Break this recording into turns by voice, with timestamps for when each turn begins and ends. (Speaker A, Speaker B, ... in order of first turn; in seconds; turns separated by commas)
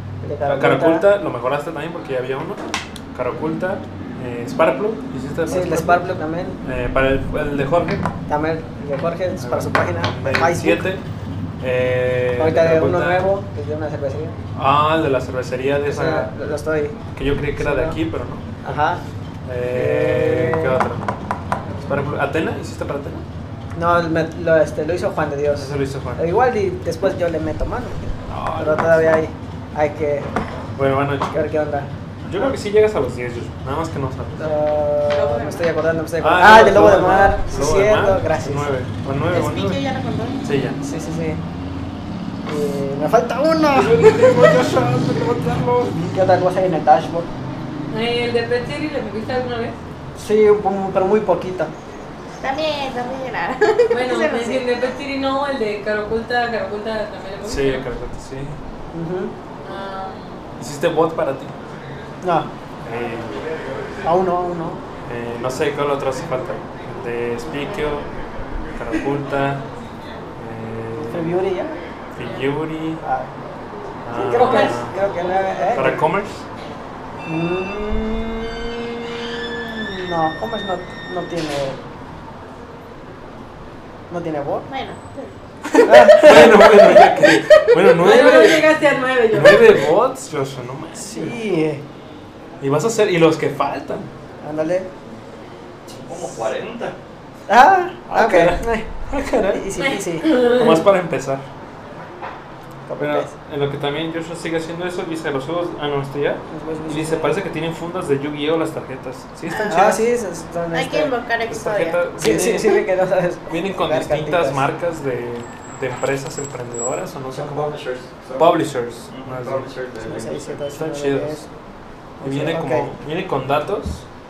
Speaker A: 0.2-1.1, Speaker B: 0.5-6.1, Speaker A: 5.5-6.6, Speaker B: 6.6-8.1, Speaker A: 8.3-10.8, Speaker B: 9.4-11.0, Speaker B: 11.6-13.2, Speaker A: 12.4-14.4, Speaker B: 14.6-16.3, Speaker A: 15.9-17.0, Speaker B: 17.1-18.8, Speaker A: 17.6-18.0, Speaker A: 18.6-19.0, Speaker B: 19.5-21.0, Speaker A: 19.7-20.8, Speaker B: 21.9-23.2, Speaker A: 23.8-30.3, Speaker B: 25.6-26.3, Speaker B: 28.3-29.2, Speaker B: 30.8-31.5, Speaker A: 31.3-32.5, Speaker B: 32.2-34.6, Speaker A: 34.4-38.8, Speaker C: 35.1-35.7, Speaker B: 36.2-39.8, Speaker C: 39.3-40.4, Speaker B: 40.4-40.8, Speaker A: 40.8-41.4, Speaker A: 42.5-44.5, Speaker B: 43.7-46.0, Speaker A: 45.9-47.3, Speaker D: 47.9-49.8, Speaker A: 50.2-51.7, Speaker C: 52.4-54.7, Speaker D: 53.9-57.9, Speaker B: 57.4-58.6, Speaker A: 58.9-59.3, Speaker D: 59.6-60.4, Speaker B: 60.6-61.6, Speaker A: 62.2-62.5, Speaker B: 62.8-63.5, Speaker A: 64.0-64.8, Speaker B: 65.0-68.1, Speaker B: 68.8-69.6, Speaker B: 70.4-71.4, Speaker A: 71.0-71.8, Speaker B: 72.1-73.0, Speaker A: 73.0-73.3, Speaker B: 74.0-74.9, Speaker A: 74.2-76.0, Speaker D: 74.4-74.7, Speaker B: 75.7-76.5, Speaker A: 77.2-81.8, Speaker A: 84.1-84.7, Speaker C: 84.7-85.3, Speaker B: 85.7-88.8, Speaker A: 85.8-87.2, Speaker C: 85.9-86.2, Speaker C: 87.3-87.7, Speaker D: 87.9-89.8, Speaker B: 89.3-91.3, Speaker A: 91.0-91.8, Speaker B: 92.6-94.1, Speaker A: 94.4-94.9, Speaker E: 95.9-97.0, Speaker A: 97.5-100.5, Speaker B: 98.1-99.7, Speaker D: 99.8-100.8, Speaker B: 100.3-101.5, Speaker A: 102.9-103.3, Speaker B: 103.0-110.0, Speaker A: 106.5-107.4, Speaker C: 109.5-110.0, Speaker A: 109.7-111.1, Speaker C: 110.7-112.0, Speaker B: 111.5-112.8, Speaker A: 112.2-114.7, Speaker B: 113.5-117.8, Speaker E: 117.3-120.7, Speaker B: 118.4-119.7, Speaker A: 120.0-121.5, Speaker B: 120.7-121.5, Speaker B: 122.2-124.1, Speaker A: 122.2-122.9